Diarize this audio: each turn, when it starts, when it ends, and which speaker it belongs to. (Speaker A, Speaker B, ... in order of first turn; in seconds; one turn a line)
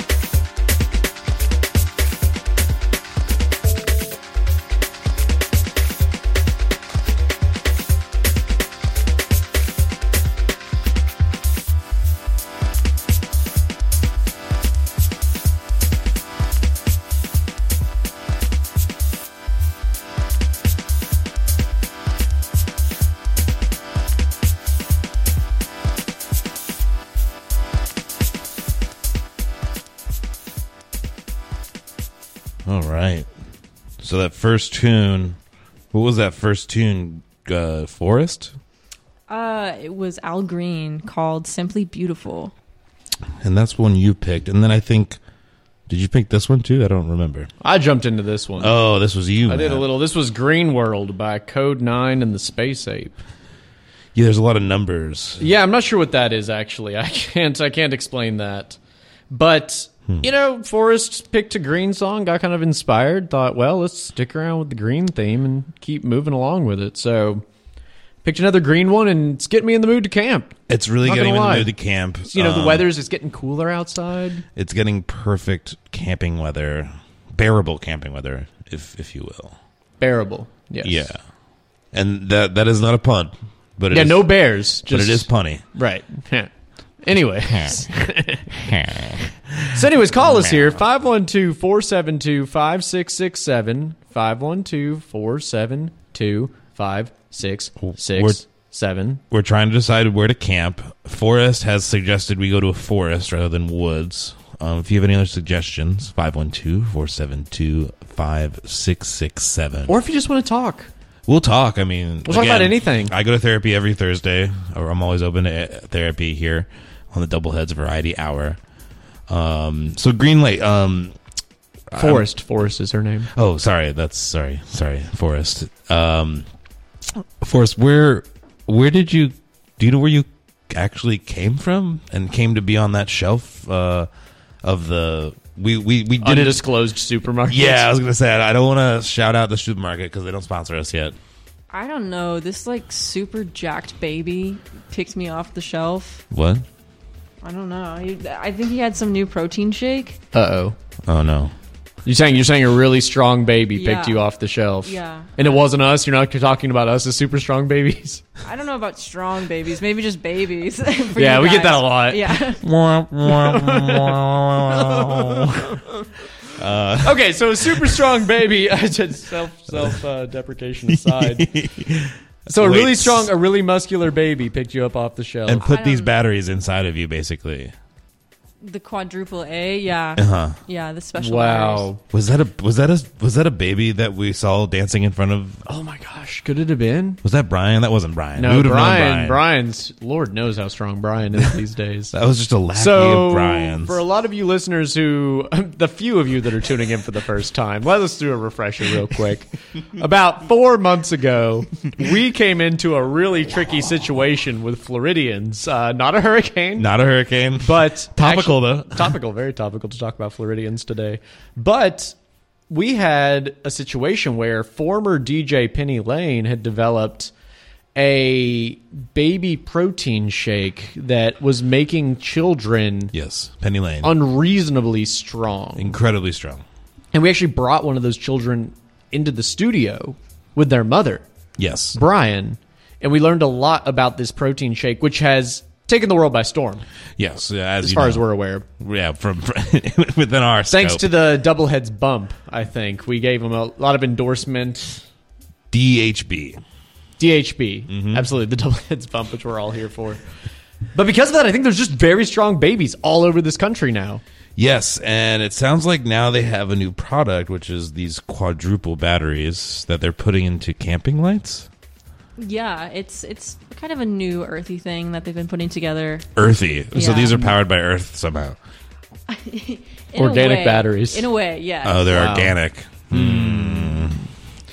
Speaker A: 32.7-33.3
Speaker A: 34.0-35.4
Speaker A: 35.9-38.5
Speaker B: 39.3-42.5
Speaker A: 43.4-45.2
Speaker A: 45.9-47.5
Speaker C: 47.6-48.7
Speaker A: 48.6-49.9
Speaker C: 49.5-53.1
Speaker A: 54.1-55.4
Speaker C: 55.4-58.8
Speaker C: 59.3-67.5
Speaker C: 68.2-71.7
Speaker A: 70.7-72.9
Speaker C: 72.3-74.4
Speaker A: 74.6-79.6
Speaker C: 80.0-81.1
Speaker A: 80.8-81.2
Speaker A: 81.9-85.6
Speaker C: 83.9-88.5
Speaker C: 89.7-99.2
Speaker A: 97.8-98.4
Speaker A: 99.3-109.9
Speaker C: 109.9-110.9
Speaker A: 111.3-118.6
Speaker C: 112.3-113.1
Speaker A: 119.3-121.1
Speaker A: 121.9-122.3
Speaker C: 122.0-123.3
Speaker A: 123.3-126.5
Speaker A: 127.4-134.1
Speaker A: 134.6-136.6
Speaker C: 136.2-137.9
Speaker A: 137.5-141.2
Speaker B: 141.7-146.2
Speaker A: 146.3-146.6
Speaker B: 147.4-150.2
Speaker C: 150.3-150.8
Speaker A: 151.1-151.5
Speaker C: 152.1-158.2
Speaker B: 153.7-154.2
Speaker B: 154.8-155.6
Speaker B: 158.4-162.6
Speaker C: 161.2-162.4
Speaker A: 162.6-165.6
Speaker C: 163.3-165.8
Speaker A: 166.6-168.0
Speaker C: 167.0-171.5
Speaker A: 169.7-170.0
Speaker A: 170.9-173.3
Speaker C: 172.5-175.7
Speaker A: 175.5-177.7
Speaker B: 175.6-176.2
Speaker B: 178.6-181.9
Speaker A: 180.2-180.6
Speaker C: 181.2-182.0
Speaker A: 182.1-185.6
Speaker C: 185.7-187.2
Speaker A: 187.2-189.4
Speaker C: 188.4-192.1
Speaker A: 192.1-194.0
Speaker C: 192.7-206.9
Speaker A: 206.8-209.2
Speaker C: 207.6-212.2
Speaker C: 212.7-217.3
Speaker C: 217.9-223.1
Speaker A: 223.1-224.1
Speaker C: 224.0-225.9
Speaker A: 225.8-226.6
Speaker C: 227.1-231.3
Speaker A: 231.6-232.0
Speaker C: 231.9-236.8
Speaker A: 237.2-238.2
Speaker C: 237.8-238.6
Speaker A: 238.8-241.1
Speaker C: 240.7-245.0
Speaker A: 245.7-246.6
Speaker C: 247.2-250.2
Speaker A: 247.9-248.3
Speaker C: 250.9-254.2
Speaker A: 254.6-261.7
Speaker B: 262.4-266.3
Speaker A: 266.4-268.6
Speaker B: 266.9-267.4
Speaker C: 267.0-267.5
Speaker B: 269.3-272.2
Speaker C: 270.1-271.2
Speaker A: 271.8-274.2
Speaker C: 272.1-272.6
Speaker C: 273.1-274.2